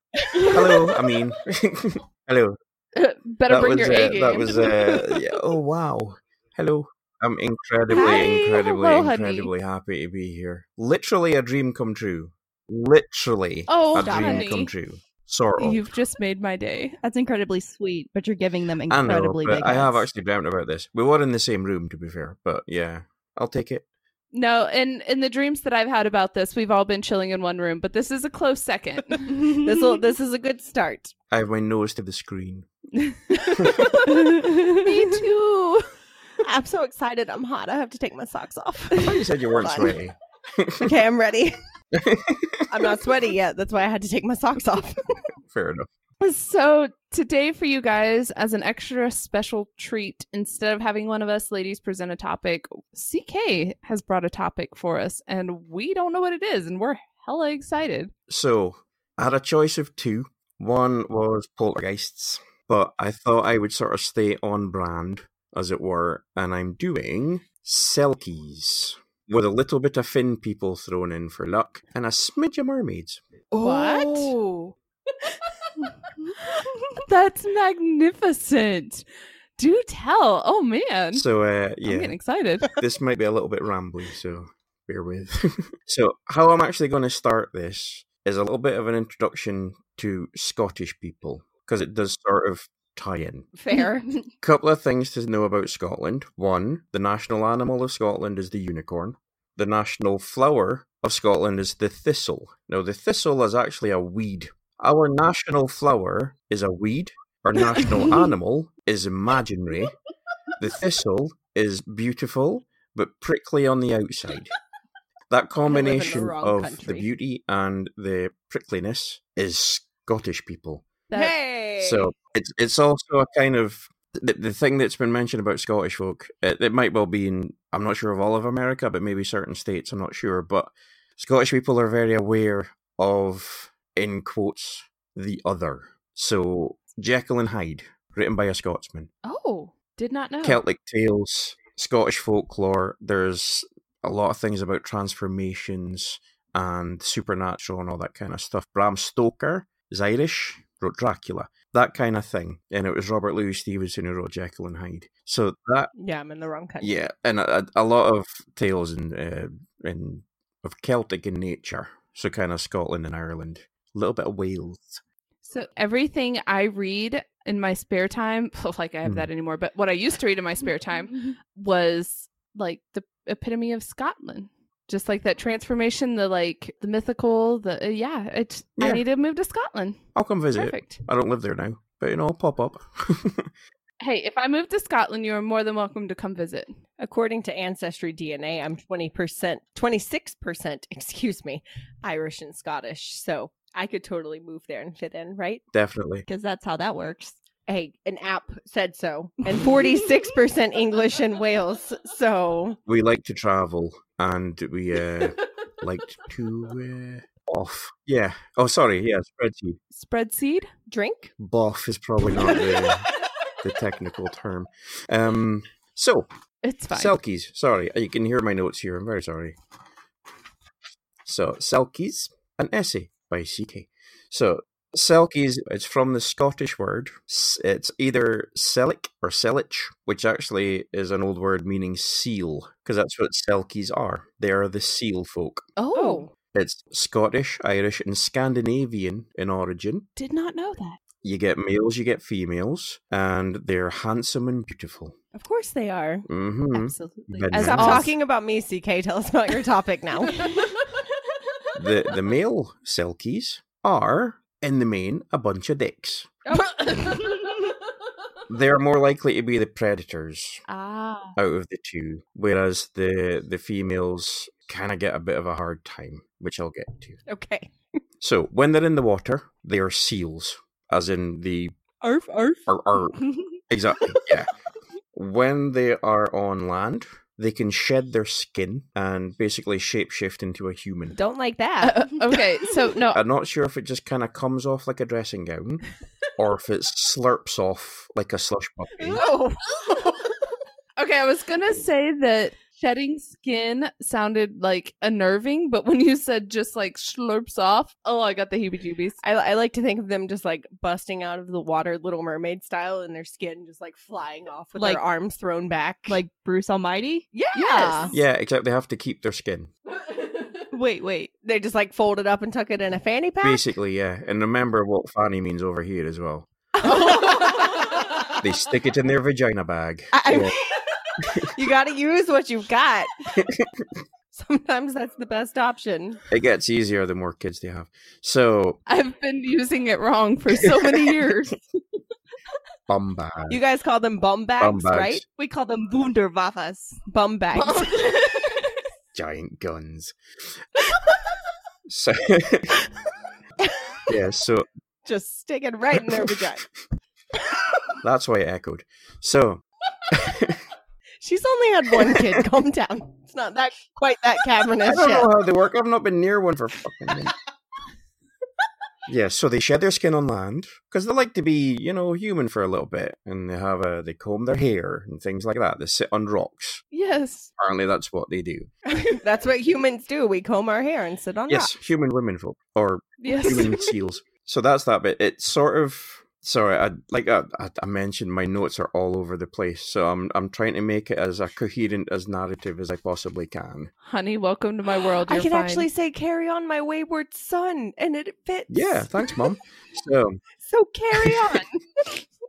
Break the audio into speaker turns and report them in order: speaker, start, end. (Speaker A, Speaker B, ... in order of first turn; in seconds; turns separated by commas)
Speaker A: 0.2-0.9, Speaker B: 0.5-2.6, Speaker C: 2.9-5.2, Speaker B: 3.5-15.9, Speaker C: 7.9-9.5, Speaker A: 8.0-8.2, Speaker C: 13.7-14.7, Speaker D: 14.0-14.5, Speaker C: 15.6-17.0, Speaker D: 17.0-20.1, Speaker B: 18.9-23.8, Speaker C: 24.3-29.4, Speaker A: 29.3-31.1, Speaker B: 31.3-32.7, Speaker A: 33.3-34.5, Speaker B: 33.5-34.0, Speaker C: 34.1-35.9, Speaker D: 34.2-34.8, Speaker A: 36.4-40.0, Speaker B: 39.0-40.9, Speaker A: 40.8-41.5, Speaker B: 41.9-42.7, Speaker A: 42.7-45.1, Speaker B: 45.5-45.9, Speaker C: 46.2-58.1, Speaker B: 58.3-73.2, Speaker C: 73.5-74.5, Speaker A: 73.6-74.7, Speaker C: 76.9-79.0, Speaker C: 79.6-81.2, Speaker B: 81.1-82.2, Speaker C: 81.8-82.8, Speaker B: 82.7-93.5, Speaker A: 93.6-94.1, Speaker B: 94.4-109.9, Speaker B: 110.6-114.5, Speaker B: 115.3-120.9, Speaker A: 115.7-117.0, Speaker A: 121.1-122.1, Speaker B: 121.8-139.1, Speaker C: 139.2-140.6, Speaker B: 140.4-155.9, Speaker A: 155.9-156.9, Speaker B: 156.8-165.0, Speaker C: 165.4-180.0, Speaker B: 178.8-179.0, Speaker B: 180.1-183.5, Speaker C: 180.5-181.0, Speaker C: 184.0-186.7, Speaker A: 187.0-195.6, Speaker B: 195.7-196.2, Speaker D: 196.2-197.4, Speaker A: 197.7-202.8, Speaker B: 202.9-209.8, Speaker C: 209.9-210.7, Speaker A: 210.9-211.3, Speaker B: 211.4-213.1, Speaker B: 213.6-216.3, Speaker C: 216.6-217.1, Speaker B: 216.9-219.6, Speaker B: 221.2-235.6, Speaker C: 235.8-236.2, Speaker A: 235.9-236.3, Speaker B: 236.5-240.1, Speaker C: 240.2-241.0, Speaker B: 241.2-245.1, Speaker A: 245.3-246.3, Speaker B: 246.3-248.1, Speaker D: 246.8-247.7, Speaker C: 247.5-248.1, Speaker A: 247.5-250.7, Speaker B: 251.7-256.4, Speaker C: 256.5-257.6, Speaker B: 258.5-260.6, Speaker C: 260.7-261.4, Speaker B: 261.4-267.2, Speaker A: 267.3-267.7, Speaker B: 268.2-271.8, Speaker A: 272.0-272.7, Speaker B: 272.7-274.5, Speaker B: 275.1-281.1, Speaker A: 281.1-282.1, Speaker C: 281.8-283.2, Speaker B: 283.1-285.8, Speaker B: 286.4-289.2, Speaker A: 289.0-290.3, Speaker C: 291.0-299.2, Speaker A: 299.2-306.2, Speaker D: 304.7-305.0, Speaker D: 306.1-307.3, Speaker A: 307.3-308.1, Speaker C: 307.6-308.1, Speaker B: 308.1-309.7, Speaker D: 310.7-311.3, Speaker A: 311.4-313.6, Speaker B: 313.4-316.5, Speaker A: 316.8-318.0, Speaker C: 317.0-317.7, Speaker B: 318.3-320.6, Speaker A: 320.1-320.8, Speaker B: 321.2-321.5, Speaker A: 321.4-323.1, Speaker B: 323.3-323.8, Speaker A: 324.3-326.2, Speaker B: 326.3-328.8, Speaker C: 328.9-331.6, Speaker B: 330.5-330.8, Speaker B: 332.9-333.6, Speaker A: 333.5-335.2, Speaker B: 334.6-335.2, Speaker D: 335.3-337.0, Speaker A: 337.1-338.2, Speaker C: 337.6-338.7, Speaker B: 339.1-340.1, Speaker B: 341.9-342.8, Speaker A: 343.6-344.0, Speaker B: 344.1-344.6, Speaker A: 345.1-346.6, Speaker B: 348.0-350.6, Speaker A: 351.2-355.3, Speaker B: 352.1-352.4, Speaker B: 354.8-357.4, Speaker B: 359.1-366.8, Speaker C: 366.9-367.5, Speaker B: 367.6-368.7, Speaker A: 368.9-371.7, Speaker B: 371.5-383.9, Speaker C: 373.2-373.9, Speaker C: 384.0-385.9, Speaker A: 385.3-389.5, Speaker B: 388.7-390.4, Speaker A: 390.6-392.2, Speaker B: 391.1-391.6